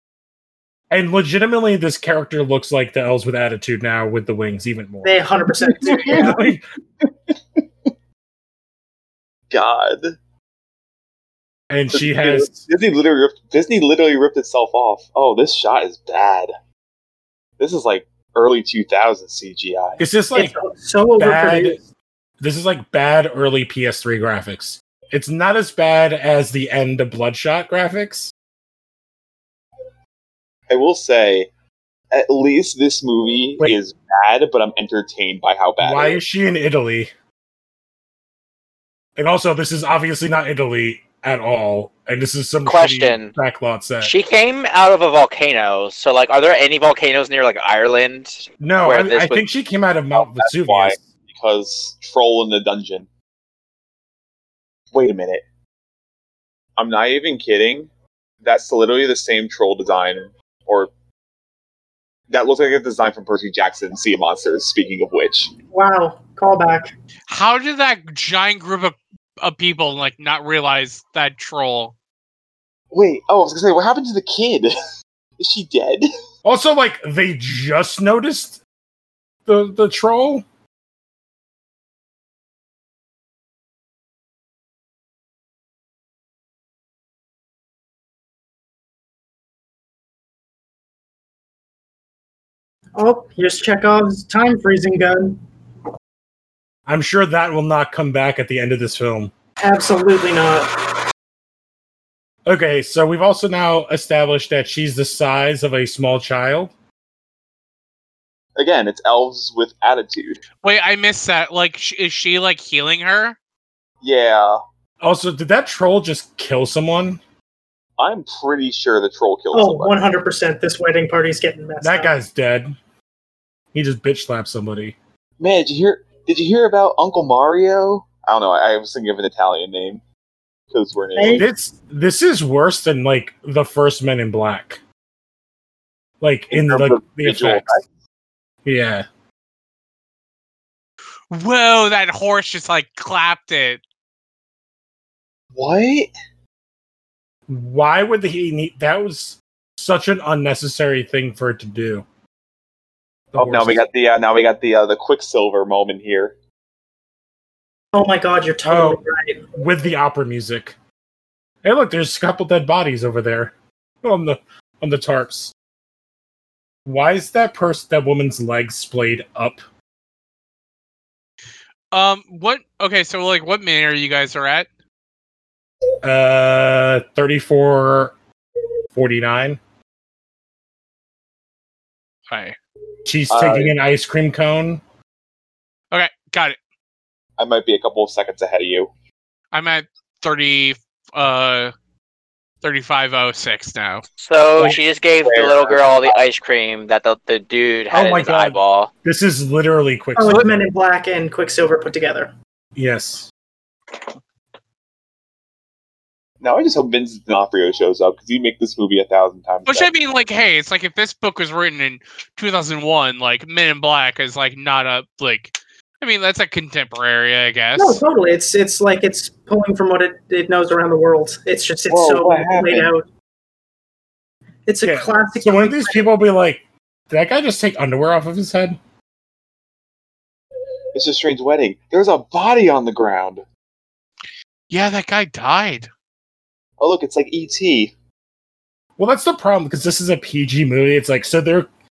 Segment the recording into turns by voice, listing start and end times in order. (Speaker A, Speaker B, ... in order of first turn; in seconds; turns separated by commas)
Speaker A: 0.9-6.6, Speaker B: 5.0-6.4, Speaker C: 6.1-6.4, Speaker C: 9.5-10.2, Speaker A: 11.7-12.7, Speaker C: 11.9-16.5, Speaker C: 17.6-20.0, Speaker A: 20.0-20.6, Speaker B: 20.4-21.8, Speaker A: 21.2-21.8, Speaker A: 22.4-28.3, Speaker C: 30.7-31.5, Speaker C: 32.1-36.2, Speaker A: 35.8-37.1, Speaker A: 39.2-44.1, Speaker D: 42.6-43.3, Speaker D: 44.0-49.4, Speaker A: 48.6-51.0, Speaker C: 50.2-53.1, Speaker C: 54.9-55.4, Speaker C: 56.8-57.9, Speaker C: 58.4-60.9, Speaker C: 62.3-65.5, Speaker B: 65.7-66.9, Speaker E: 67.3-71.9, Speaker C: 72.9-74.7, Speaker C: 75.4-76.1, Speaker A: 76.5-78.6, Speaker A: 79.5-80.5, Speaker B: 93.0-95.4, Speaker A: 96.9-99.3, Speaker B: 99.6-100.7, Speaker A: 102.5-106.7, Speaker C: 108.6-110.4, Speaker E: 110.6-113.4, Speaker C: 114.0-114.6, Speaker A: 115.0-117.2, Speaker C: 118.0-119.9, Speaker B: 119.5-122.1, Speaker A: 121.8-122.8, Speaker A: 123.7-125.0, Speaker C: 125.4-130.0, Speaker C: 130.7-131.5, Speaker B: 131.2-131.5, Speaker A: 131.4-134.8, Speaker A: 136.2-137.8, Speaker C: 136.5-137.8, Speaker A: 138.7-139.1, Speaker E: 141.3-143.8, Speaker C: 145.6-146.1, Speaker A: 147.5-152.1, Speaker A: 153.3-153.9, Speaker C: 153.4-156.3, Speaker B: 157.9-159.5, Speaker A: 158.7-159.0, Speaker A: 159.6-160.8, Speaker A: 161.6-165.5, Speaker A: 166.9-169.6, Speaker E: 171.9-174.7, Speaker A: 176.0-178.2, Speaker A: 178.9-179.6, Speaker E: 182.3-182.6, Speaker A: 183.1-184.8, Speaker C: 183.3-183.8, Speaker E: 185.9-186.6, Speaker C: 187.4-188.9, Speaker E: 189.5-191.7, Speaker E: 192.6-194.0, Speaker D: 194.2-198.9, Speaker C: 194.7-196.2, Speaker A: 197.9-200.6, Speaker B: 200.2-202.3, Speaker A: 202.8-203.3, Speaker C: 206.4-209.9, Speaker E: 209.7-218.0, Speaker B: 217.8-223.1, Speaker C: 221.9-222.9, Speaker B: 224.7-226.1, Speaker A: 224.8-228.8, Speaker C: 230.9-233.4, Speaker E: 234.7-235.9, Speaker C: 236.8-237.9, Speaker A: 239.0-241.7